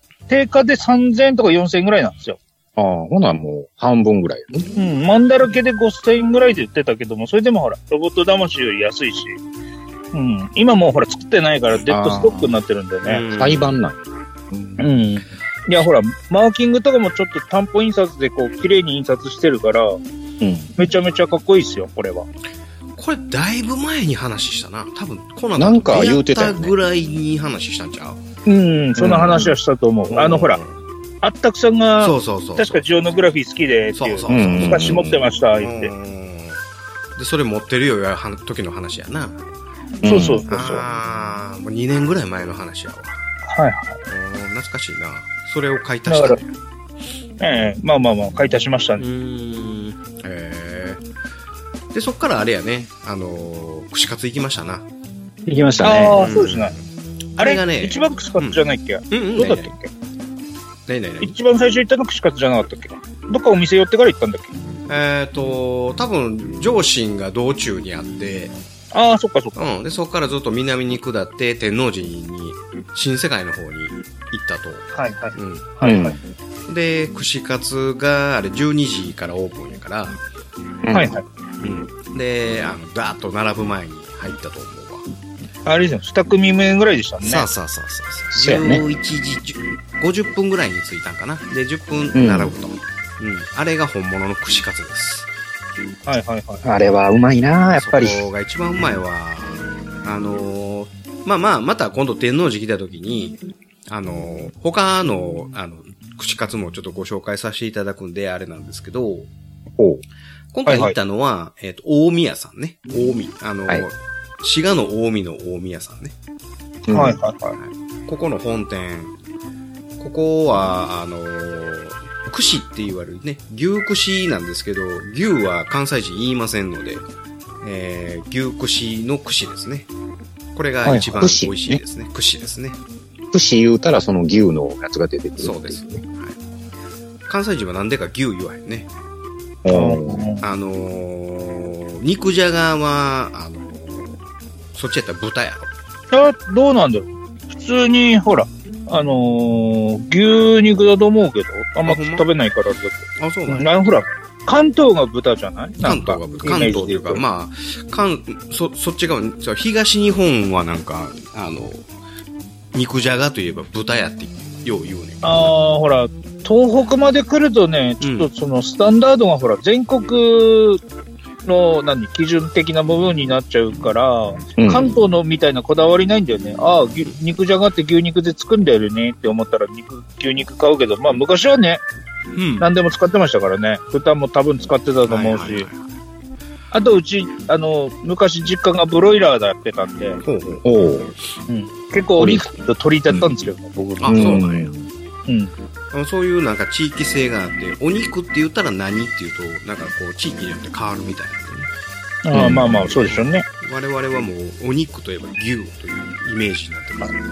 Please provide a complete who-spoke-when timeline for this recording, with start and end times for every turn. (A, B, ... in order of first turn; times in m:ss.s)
0:00.3-0:02.4 A
0:02.8-0:04.7 B
0:04.7-0:09.4 A
0:10.1-0:13.2 A
0:11.8-0:12.5 B
0:13.0-0:13.8 C
0:13.3-0:14.0 B
0:14.5-0:14.8 B
0:14.8-0:20.0 A
0:20.4-0:20.7 B
0:20.8-0:22.3 A
0:23.0-0:28.2 C
0:25.6-0:26.7 B
0:28.4-0:30.6 A
0:29.0-0:29.5 B
0:30.1-0:30.7 C
0:31.2-0:35.9 A
0:32.0-0:32.9 C
0:34.0-0:36.6 C
0:34.3-0:35.2 B
0:37.2-0:39.4 C
0:40.0-0:40.4 B
0:40.0-0:40.8 A
0:40.5-0:43.2 C
0:43.4-0:44.0 A
0:44.1-0:46.5 C
0:46.1-0:46.4 A
0:47.4-0:49.0 A
0:49.0-0:51.0 C
0:51.9-0:54.9 C
0:55.4-0:56.3 B
0:55.8-0:56.8 A
0:56.2-0:56.8 C
0:57.4-0:58.6 C
0:57.4-0:59.9 A
0:59.1-0:59.7 C
1:00.9-1:01.3 C
1:01.2-1:04.5 A
1:04.9-1:08.5 C
1:08.9-1:09.6 A
1:09.6-1:15.7 C
1:14.9-1:16.2 A
1:15.8-1:16.2 B
1:16.7-1:20.2 C
1:20.8-1:21.1 B
1:20.9-1:21.2 A
1:21.6-1:25.0 C
1:25.6-1:27.4 A
1:27.2-1:35.3 C
1:28.3-1:28.8 B
1:32.1-1:32.5 B
1:36.1-1:36.6 A
1:36.6-1:38.3 B
1:37.8-1:49.3 C
1:50.5-1:56.1 C
1:50.6-1:50.9 A
1:56.8-1:57.2 B
1:56.9-1:57.6 A
1:57.6-1:59.1 C
2:00.0-2:07.1 C
2:07.6-2:09.9 C
2:10.5-2:12.8 C
2:10.8-2:11.8 B
2:13.3-2:16.0 B
2:15.4-2:16.4 C
2:17.3-2:18.9 C
2:19.6-2:20.2 B
2:19.7-2:20.4 A
2:20.4-2:24.2 C
2:24.7-2:25.7 C
2:26.1-2:37.2 A
2:31.8-2:32.2 C
2:33.2-2:33.7 C
2:35.8-2:41.8 C
2:42.7-2:45.5 C
2:45.2-2:50.8 A
2:48.0-2:48.3 C
2:51.4-3:01.8 A
2:54.6-2:54.9 B
3:02.3-3:02.7 C
3:02.6-3:05.7 A
3:05.0-3:05.8 C
3:06.7-3:10.2 A
3:10.2-3:10.6 C
3:10.6-3:11.1 B
3:11.5-3:14.4 A
3:12.2-3:12.4 B
3:14.0-3:14.7 C
3:14.1-3:14.9 B
3:15.3-3:15.5 A
3:15.9-3:21.7 C
3:22.2-3:23.4 A
3:22.3-3:22.9 B
3:22.9-3:27.1 C